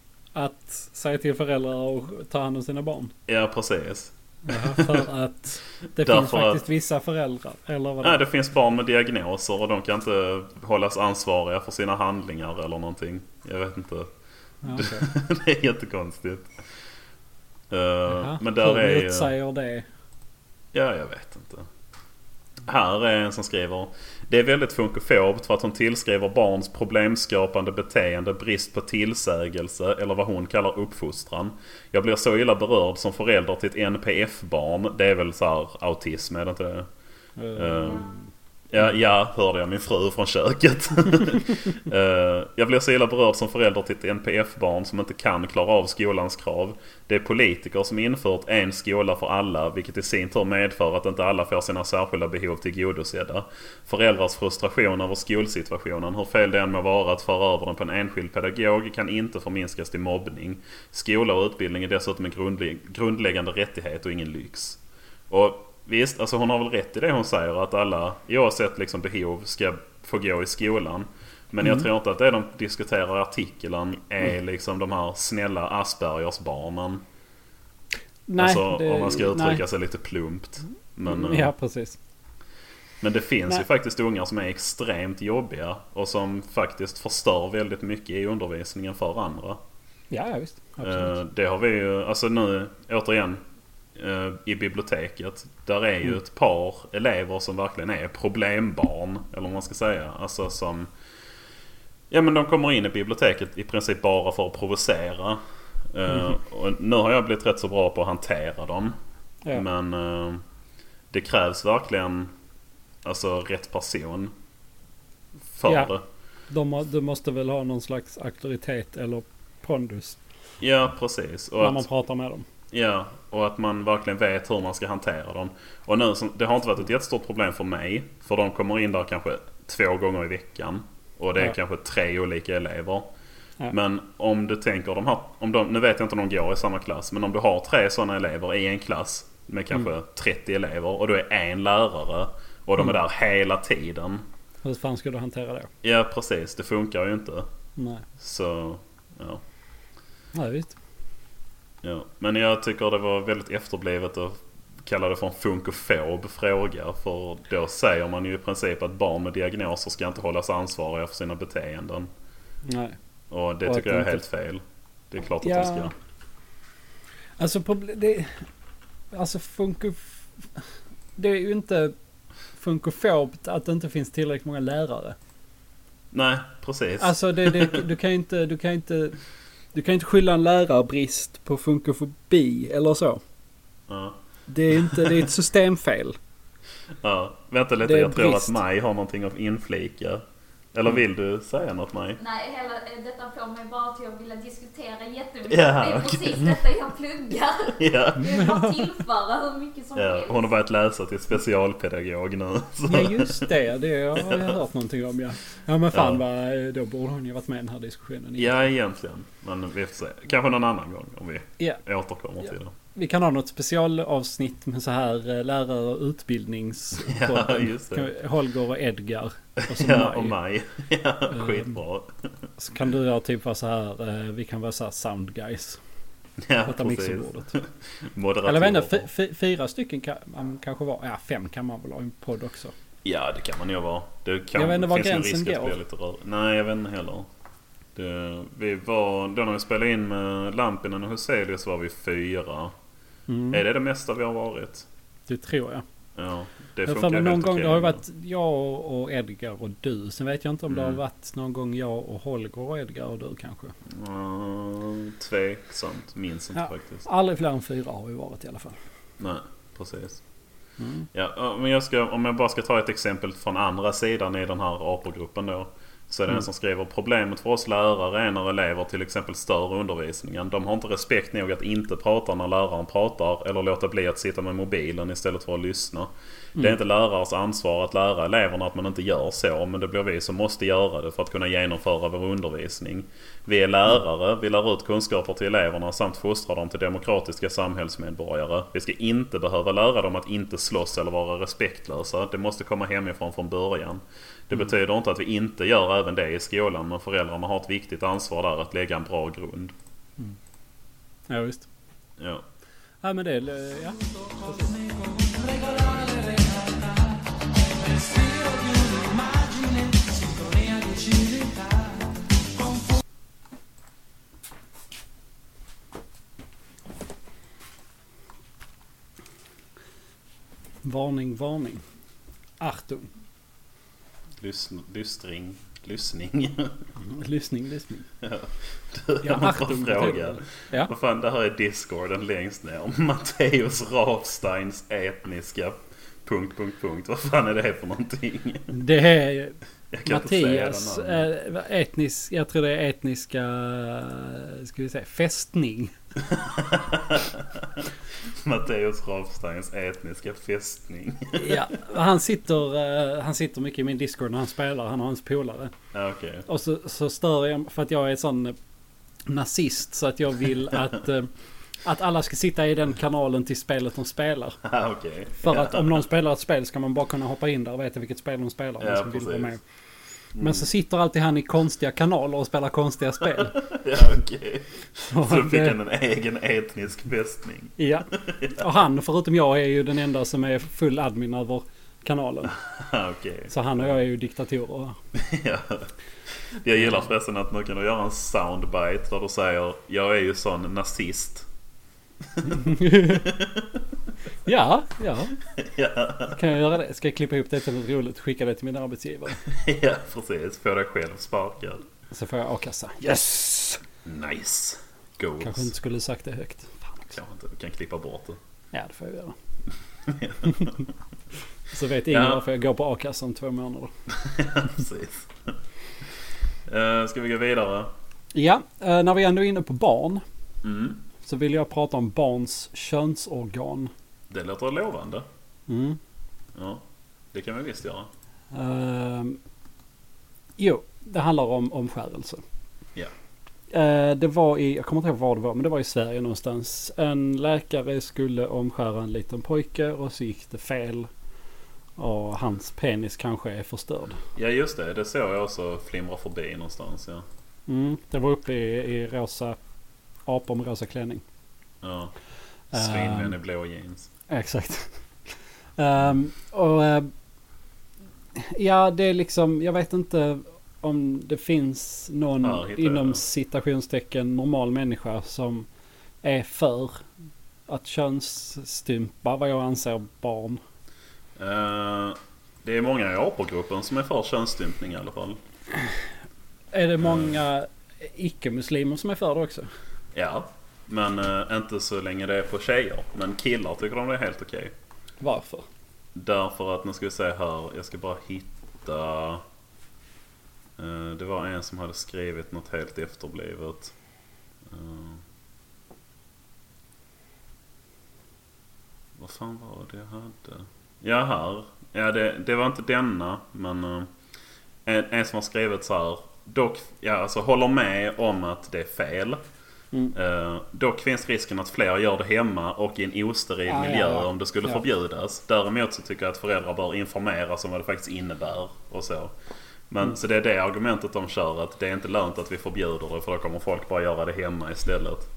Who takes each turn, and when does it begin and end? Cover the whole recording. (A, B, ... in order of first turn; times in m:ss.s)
0:00.4-0:03.1 A
0:03.3-0:05.0 B
0:04.5-0:08.2 A
0:06.0-0:06.6 B
0:08.0-0:14.1 B
0:14.6-0:15.1 A
0:14.7-0:16.5 B
0:17.7-0:19.3 B
0:18.1-0:19.9 A
0:20.7-0:21.7 B
0:22.6-0:36.9 B
0:37.4-0:38.3 A
0:37.6-0:38.1 B
0:38.7-1:17.0 B
1:18.3-1:19.6 A
1:18.4-1:21.5 B
1:21.0-1:22.0 A
1:23.0-1:29.6 B
1:30.1-1:31.2 A
1:30.8-1:33.4 B
1:34.0-1:40.9 B
1:42.1-1:45.4 B
1:45.9-1:49.0 B
1:49.5-1:50.4 B
1:51.1-1:52.3 B
1:53.0-1:54.3 B
1:55.5-1:56.0 B
1:55.7-1:55.9 A
1:56.5-2:00.2 A
2:00.6-2:01.8 B
2:01.6-2:02.5 A
2:02.7-2:13.1 B
2:13.7-2:24.2 B
2:24.6-2:25.7 A
2:25.8-2:27.5 B
2:27.8-2:28.0 A
2:28.2-2:29.4 B
2:30.3-2:30.8 A
2:31.8-2:42.1 B
2:42.7-2:43.0 A
2:43.3-2:45.9 B
2:43.6-2:44.2 A
2:45.4-2:45.9 A
2:47.4-2:48.5 A
2:49.1-2:50.6 A
2:51.2-2:51.9 A
2:52.5-2:55.2 A
2:56.1-2:57.8 B
2:57.0-2:59.2 A
2:59.7-3:03.2 A
3:03.9-3:04.2 B
3:04.5-3:06.2 A
3:04.8-3:05.2 B
3:07.0-3:10.2 B
3:07.8-3:08.6 A
3:10.7-3:12.2 B
3:12.2-3:20.5 C
3:15.5-3:16.6 B
3:17.8-3:18.4 B
3:18.2-3:18.7 A
3:20.0-3:23.5 B
3:22.9-3:28.6 A
3:24.2-3:24.6 B
3:25.9-3:26.2 B
3:28.4-3:32.7 B
3:32.9-3:40.4 A
3:37.1-3:38.1 B
3:39.6-3:42.3 B
3:41.3-3:41.7 A
3:42.6-3:45.8 A
3:46.4-3:49.1 B
3:46.7-3:47.6 A
3:48.4-3:52.7 A
3:53.0-3:57.3 B
3:54.6-3:55.8 A
3:58.0-4:02.7 B
4:03.3-4:03.6 A
4:03.5-4:04.9 B
4:05.3-4:05.8 A
4:06.2-4:08.0 B
4:06.8-4:13.7 A
4:10.7-4:11.0 B
4:13.9-4:17.0 B
4:16.6-4:18.8 A
4:19.2-4:20.2 B
4:20.8-4:21.1 A
4:21.1-4:59.7 B
5:01.3-5:01.7 A
5:02.2-5:02.4 B
5:03.0-5:07.2 A
5:07.8-5:11.9 A
5:20.8-5:21.8 A
5:22.6-5:23.1 A
5:24.4-5:26.8 B
5:27.0-5:28.1 A
5:28.2-5:38.7 B
5:29.2-5:30.9 A
5:38.7-5:45.9 A
5:39.9-5:41.3 B
5:46.2-5:51.6 B
5:51.3-5:55.7 A
5:55.9-5:56.5 B
5:56.5-5:58.6 A
5:59.3-6:01.3 A
6:01.8-6:04.6 A
6:04.6-6:05.9 B
6:05.4-6:09.6 A
6:08.8-6:09.5 B
6:10.4-6:10.7 B
6:10.4-6:13.6 A
6:13.6-6:18.6 B
6:15.0-6:15.8 A
6:17.8-6:22.6 A
6:22.5-6:24.0 B
6:23.5-6:25.0 A
6:25.1-6:25.9 B
6:26.6-6:31.5 B
6:32.2-6:33.8 B
6:32.5-6:33.2 A
6:34.4-6:35.3 A
6:35.5-6:36.4 B
6:36.3-6:39.4 A
6:39.4-6:41.8 B
6:42.1-6:43.8 A
6:44.0-6:45.7 B
6:45.4-6:47.2 A
6:47.1-6:48.4 B
6:48.7-6:49.4 A
6:50.0-6:50.9 B
6:50.5-6:50.7 A
6:51.7-6:53.9 A
6:52.1-6:52.4 B
6:54.1-6:55.6 B
6:56.7-6:57.9 B
6:58.3-7:00.2 A
7:00.6-7:01.0 B
7:01.2-7:03.9 A
7:04.3-7:05.3 B
7:05.7-7:06.0 A
7:06.6-7:08.1 B
7:08.5-7:09.4 A
7:10.6-7:12.4 A
7:13.7-7:21.1 A
7:22.0-7:24.2 A
7:24.4-7:27.2 B
7:27.7-7:29.6 A
7:30.3-7:31.2 A
7:31.8-7:32.1 B
7:32.7-7:34.1 B
7:32.7-7:33.4 A
7:34.3-7:35.0 A
7:35.8-7:37.1 A
7:38.4-7:45.7 A
7:42.4-7:43.2 B
7:46.2-7:47.0 A
7:47.7-7:50.6 A
7:51.4-7:55.4 B
7:56.7-7:59.7 A
7:57.0-7:57.4 B
8:00.1-8:04.7 B
8:05.2-8:05.7 A
8:06.2-8:09.4 B
8:10.8-8:13.9 B
8:14.6-8:15.2 B
8:19.2-8:24.1 B
8:24.9-8:29.4 B
8:30.1-8:39.3 B
8:33.7-8:34.8 A
8:39.9-8:45.3 B